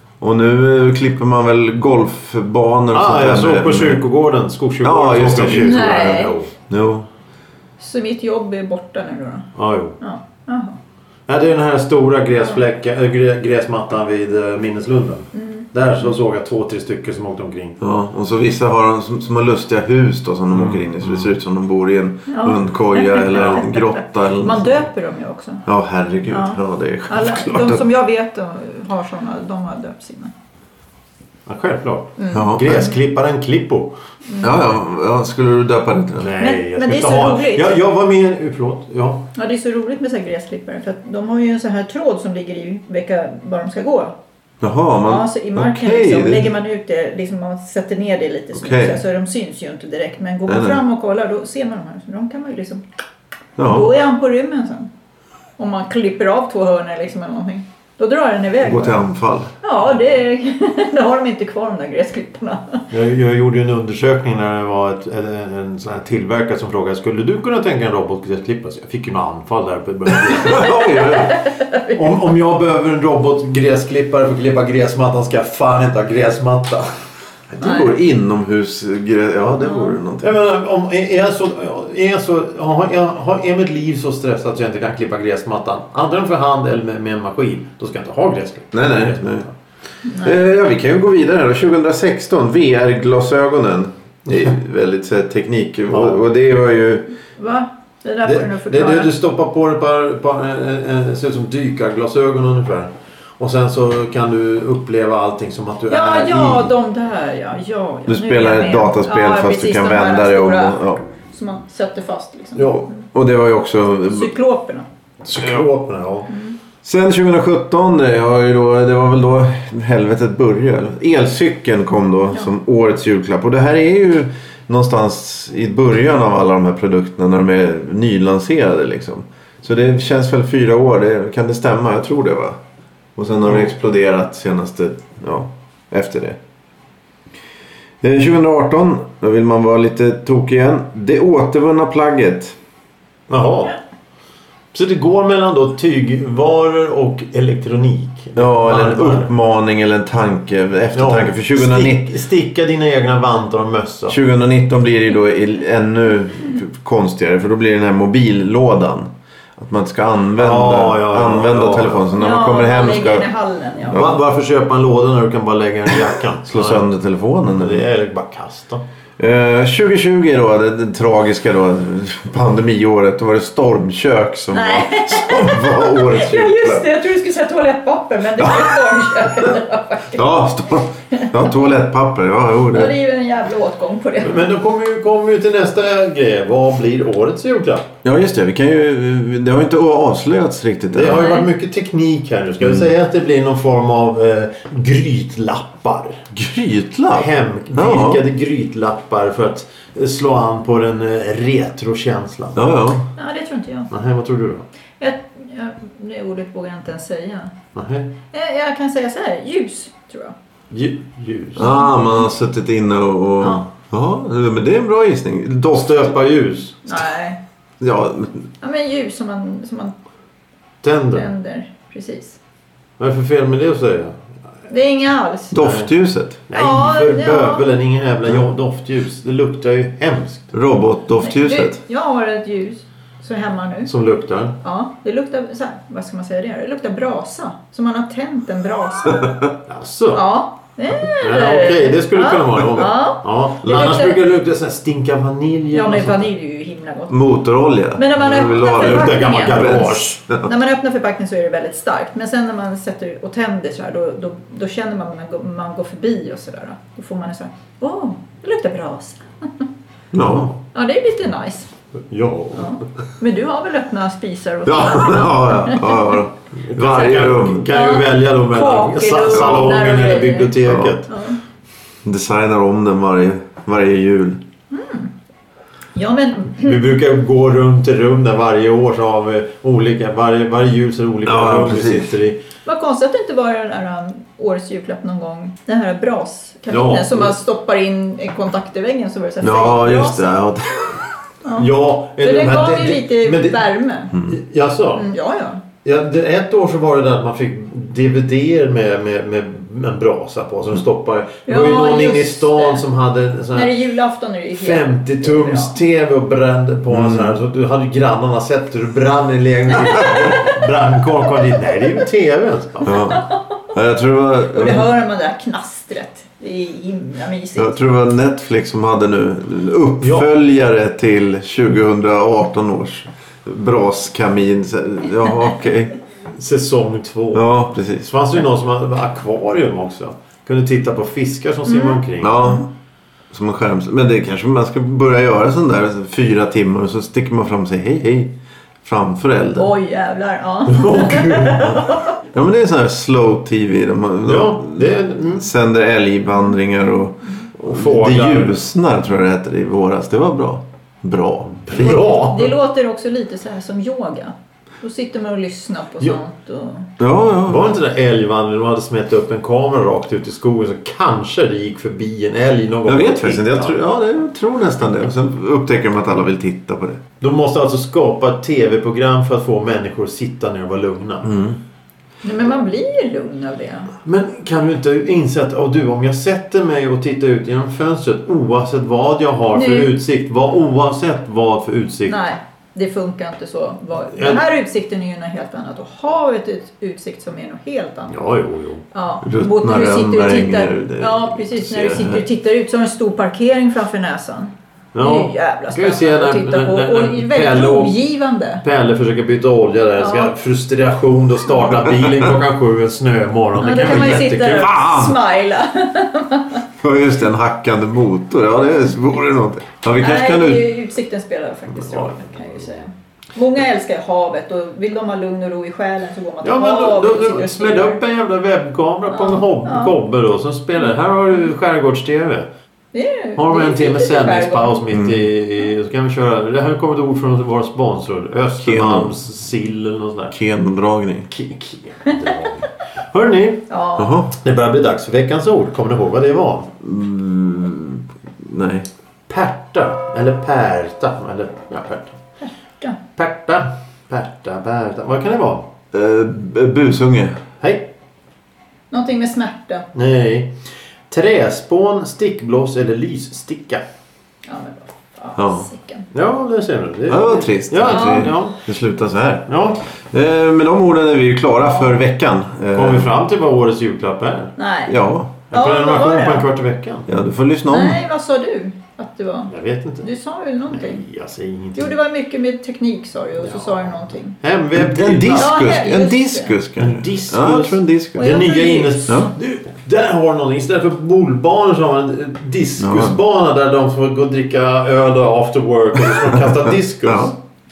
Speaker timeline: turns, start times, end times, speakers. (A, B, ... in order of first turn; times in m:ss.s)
0:00.2-0:04.0 A
0:02.9-0:06.5 B
0:04.8-0:07.1 A
0:05.6-0:06.4 C
0:07.8-0:09.5 C
0:09.6-0:10.0 B
0:10.0-0:10.8 C
0:11.3-0:17.8 B
0:15.4-0:15.7 C
0:17.8-0:24.8 A
0:20.5-0:21.3 B
0:22.3-0:25.6 C
0:25.7-0:27.8 A
0:26.3-0:30.3 C
0:31.5-0:34.0 B
0:32.2-0:32.9 C
0:32.3-0:32.9 A
0:34.3-0:34.7 C
0:34.4-0:36.3 A
0:36.2-0:39.2 B
0:36.4-0:37.7 C
0:39.4-0:44.1 C
0:44.6-0:46.5 A
0:45.0-0:52.8 C
0:48.6-0:49.0 A
0:50.5-0:50.8 A
0:53.6-0:53.9 A
0:53.6-0:54.9 C
0:55.6-0:59.1 C
0:58.6-0:59.5 A
0:59.6-1:02.9 C
1:02.9-1:11.1 B
1:10.2-1:11.4 A
1:10.5-1:12.1 C
1:11.9-1:16.9 B
1:17.5-1:20.3 A
1:17.6-1:17.9 C
1:19.6-1:20.0 C
1:20.2-1:29.5 B
1:28.7-1:29.5 A
1:30.1-1:30.4 C
1:30.2-1:37.1 A
1:35.9-1:36.2 B
1:37.4-1:39.1 C
1:38.2-1:46.7 B
1:45.9-1:53.0 C
1:48.1-1:51.0 A
1:52.6-1:52.9 B
1:53.1-1:54.3 A
1:54.1-1:54.9 C
1:55.2-1:56.3 B
1:56.3-1:56.6 C
1:56.8-2:12.6 A
2:13.2-2:16.4 A
2:18.0-2:22.6 A
2:23.3-2:23.8 B
2:24.7-2:29.3 B
2:28.4-2:32.1 A
2:30.9-2:34.2 B
2:34.1-2:43.3 A
2:40.4-2:42.1 B
2:42.2-2:44.1 C
2:43.9-2:46.9 B
2:46.5-2:47.9 A
2:47.4-2:48.8 B
2:49.2-2:56.8 A
2:54.5-3:00.3 C
2:58.4-2:58.8 A
3:00.1-3:02.9 A
3:01.1-3:01.6 C
3:02.7-3:04.5 C
3:04.2-3:07.9 B
3:08.0-3:11.3 A
3:10.9-3:16.2 B
3:11.1-3:11.5 C
3:16.3-3:18.2 A
3:17.1-3:22.8 B
3:22.6-3:23.1 A
3:23.2-3:23.9 C
3:23.9-3:24.7 B
3:25.0-3:27.5 C
3:27.8-3:28.1 B
3:28.3-3:30.4 C
3:30.7-3:31.7 B
3:31.6-3:36.1 A
3:31.6-3:31.9 C
3:35.7-3:36.8 B
3:36.8-3:37.4 C
3:37.8-3:38.5 A
3:38.6-3:39.9 C
3:40.8-3:41.3 B
3:41.2-3:42.4 C
3:43.0-3:44.2 B
3:44.7-3:45.6 C
3:45.5-3:46.4 A
3:45.6-3:45.9 B
3:46.5-3:50.5 B
3:46.6-3:47.6 C
3:50.5-3:51.8 A
3:51.2-3:53.9 C
3:53.9-3:54.6 B
3:54.6-3:59.4 C
3:59.7-4:00.3 B
4:00.1-4:04.2 C
4:01.2-4:06.3 B
4:05.7-4:07.2 C
4:07.1-4:10.5 A
4:08.0-4:19.2 C
4:08.4-4:10.2 B
4:20.1-4:20.5 A
4:20.2-4:20.5 B
4:20.7-4:21.7 C
4:22.1-4:22.8 B
4:22.5-4:26.2 C
4:24.7-4:27.7 A
4:26.6-4:31.1 B
4:27.7-4:31.4 C
4:29.3-4:29.8 A
4:30.6-4:30.9 A
4:32.0-4:34.4 A
4:34.7-4:35.1 C
4:36.0-4:36.8 C
4:36.6-4:42.4 B
4:41.2-4:42.2 A
4:42.6-4:50.3 C
4:46.7-4:47.3 B
4:49.4-4:51.1 A
4:51.4-4:54.2 C
4:51.6-4:53.7 B
4:54.2-4:55.1 B
4:55.0-4:55.6 C
4:55.8-5:03.8 B
5:01.5-5:02.8 C
5:03.5-5:05.8 C
5:04.5-5:13.0 B
5:06.9-5:07.4 A
5:10.1-5:10.6 C
5:12.8-5:14.9 A
5:13.0-5:13.3 C
5:14.5-5:17.7 C
5:17.6-5:26.0 A
5:20.0-5:20.3 B
5:26.3-5:32.4 B
5:27.3-5:28.1 A
5:31.7-5:32.5 C
5:32.2-5:32.7 A
5:33.3-5:39.7 A
5:39.6-5:42.2 C
5:40.7-5:41.8 B
5:42.3-5:52.0 A
5:44.3-5:45.5 B
5:47.6-5:48.6 B
5:51.6-5:52.5 B
5:51.8-5:56.9 C
5:57.0-5:57.7 A
5:57.5-6:03.8 B
6:02.9-6:07.0 A
6:07.2-6:11.4 B
6:11.2-6:11.6 A
6:12.2-6:13.9 C
6:14.0-6:22.2 B
6:19.5-6:19.9 C
6:22.1-6:28.2 C
6:24.2-6:24.5 B
6:28.1-6:28.9 B
6:28.9-6:38.6 C
6:29.2-6:32.2 A
6:34.9-6:38.0 B
6:38.6-6:44.8 B
6:40.0-6:40.3 C
6:41.8-6:42.3 A
6:43.6-6:46.6 C
6:43.8-6:45.2 A
6:46.8-6:50.7 A
6:50.0-6:58.0 C
6:51.8-6:52.6 B
6:56.4-7:02.5 B
6:59.1-7:00.0 C
7:02.9-7:04.8 C
7:03.4-7:10.4 B
7:04.9-7:05.3 A
7:08.6-7:09.1 A
7:10.3-7:11.3 A
7:11.3-7:13.7 B
7:13.7-7:14.2 C
7:14.0-7:14.3 A
7:14.3-7:16.7 B
7:16.8-7:18.9 A
7:19.3-7:22.2 B
7:22.4-7:23.0 C
7:23.2-7:25.7 B
7:25.9-7:27.4 A
7:27.6-7:27.9 B
7:28.9-7:29.9 C
7:29.9-7:30.6 B
7:31.1-7:33.8 B
7:34.5-7:36.1 C
7:35.4-7:35.7 A
7:36.1-7:38.6 B
7:37.1-7:39.5 A
7:37.9-7:38.3 C
7:39.5-7:39.8 B
7:40.1-7:43.1 A
7:41.6-7:42.0 C
7:42.7-7:44.6 B
7:44.6-7:46.5 C
7:44.9-7:45.4 A
7:45.5-7:47.1 B
7:47.1-7:48.0 A
7:47.7-7:51.0 C
7:49.5-7:50.1 B
7:50.7-7:52.0 B
7:51.8-7:54.4 C
7:53.4-7:55.5 B
7:54.7-7:58.3 A
7:55.4-7:56.5 C
7:56.8-8:07.4 B
7:58.2-7:59.3 C
8:02.8-8:03.2 A
8:06.2-8:07.3 A